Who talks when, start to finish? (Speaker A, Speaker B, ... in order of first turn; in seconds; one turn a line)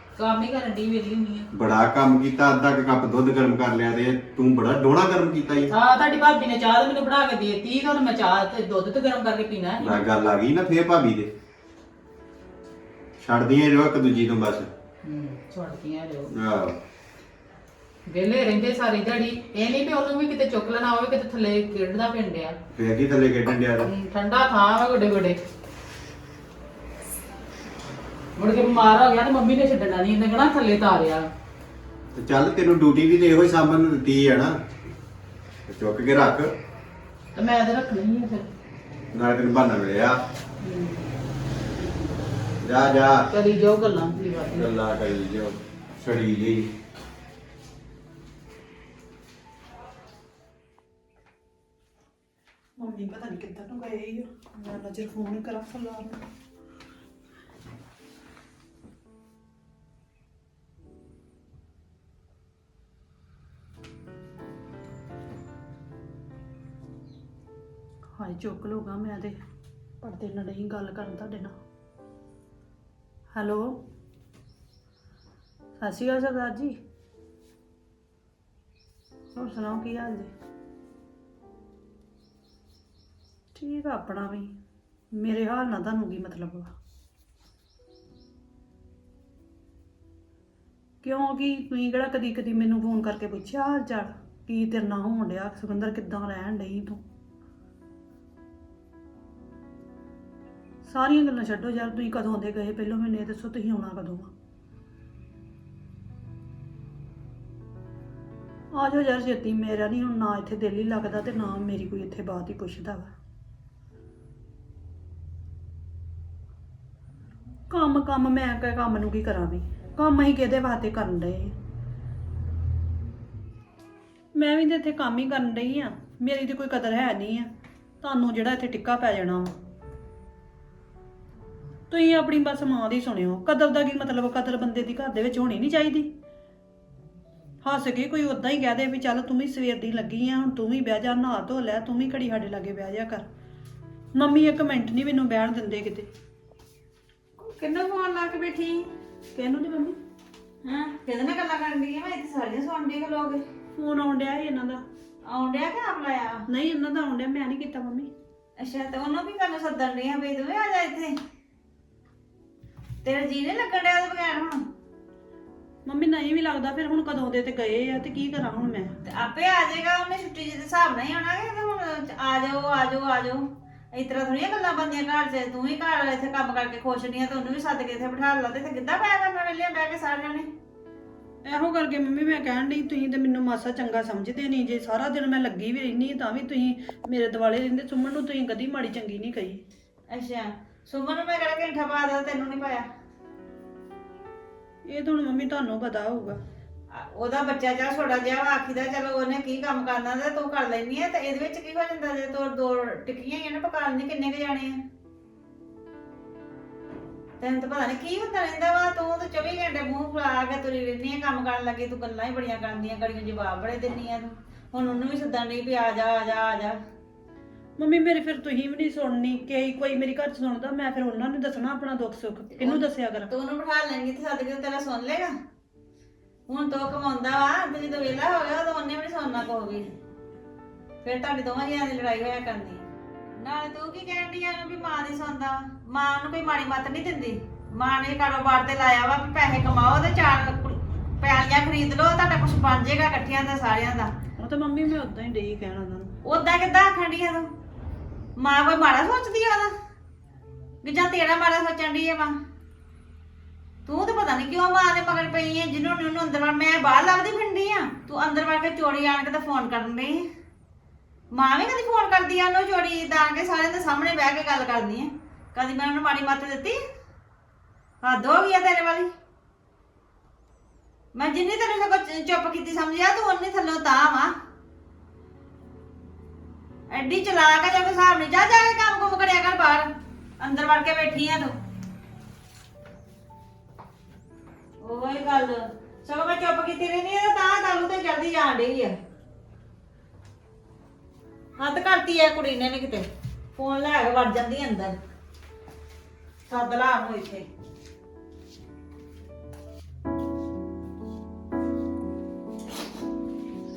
Speaker A: 0.2-1.5
Speaker B: 1.5-5.7
Speaker A: 5.7-10.0
Speaker B: 9.8-11.3
Speaker B: 13.2-14.7
Speaker A: 15.0-16.3
Speaker B: 16.3-16.8
Speaker A: 18.1-22.6
Speaker B: 22.7-23.9
Speaker A: 23.8-25.4
Speaker A: 28.4-31.3
Speaker B: 32.1-34.6
Speaker B: 35.7-36.5
Speaker A: 37.3-38.5
Speaker B: 39.1-40.2
Speaker A: 40.6-41.0
Speaker B: 42.6-43.3
Speaker A: 43.3-44.7
Speaker B: 44.5-46.7
Speaker C: 52.8-56.2
Speaker C: 68.2-69.3
Speaker C: 70.0-71.5
Speaker C: 73.3-73.7
Speaker C: 75.8-76.7
Speaker C: 79.3-80.3
Speaker C: 83.5-84.5
Speaker C: 85.1-86.7
Speaker C: 91.0-97.0
Speaker C: 100.8-104.3
Speaker C: 108.7-113.1
Speaker C: 117.7-121.5
Speaker C: 124.3-127.5
Speaker C: 128.0-129.5
Speaker C: 131.9-136.1
Speaker C: 137.6-143.2
Speaker C: 144.1-146.1
Speaker D: 147.4-148.9
Speaker C: 149.3-150.0
Speaker D: 150.6-153.4
Speaker C: 153.8-154.8
Speaker D: 155.3-156.4
Speaker C: 156.5-158.1
Speaker D: 158.6-161.1
Speaker D: 163.0-164.6
Speaker C: 165.8-168.9
Speaker D: 169.1-180.5
Speaker C: 181.4-189.6
Speaker D: 190.1-192.8
Speaker C: 194.8-196.4
Speaker D: 196.9-204.8
Speaker D: 207.4-216.8
Speaker C: 217.8-223.3
Speaker D: 222.6-225.3
Speaker D: 226.5-229.9
Speaker D: 231.0-232.8
Speaker D: 233.4-244.1
Speaker C: 244.4-246.1
Speaker D: 246.2-247.5
Speaker D: 248.4-249.7
Speaker D: 250.8-252.3
Speaker D: 253.8-260.2
Speaker D: 261.3-266.8
Speaker D: 268.0-269.1
Speaker D: 271.1-274.3
Speaker D: 276.9-279.9
Speaker D: 280.4-281.5
Speaker D: 284.8-288.9
Speaker D: 291.6-294.9
Speaker D: 296.5-297.4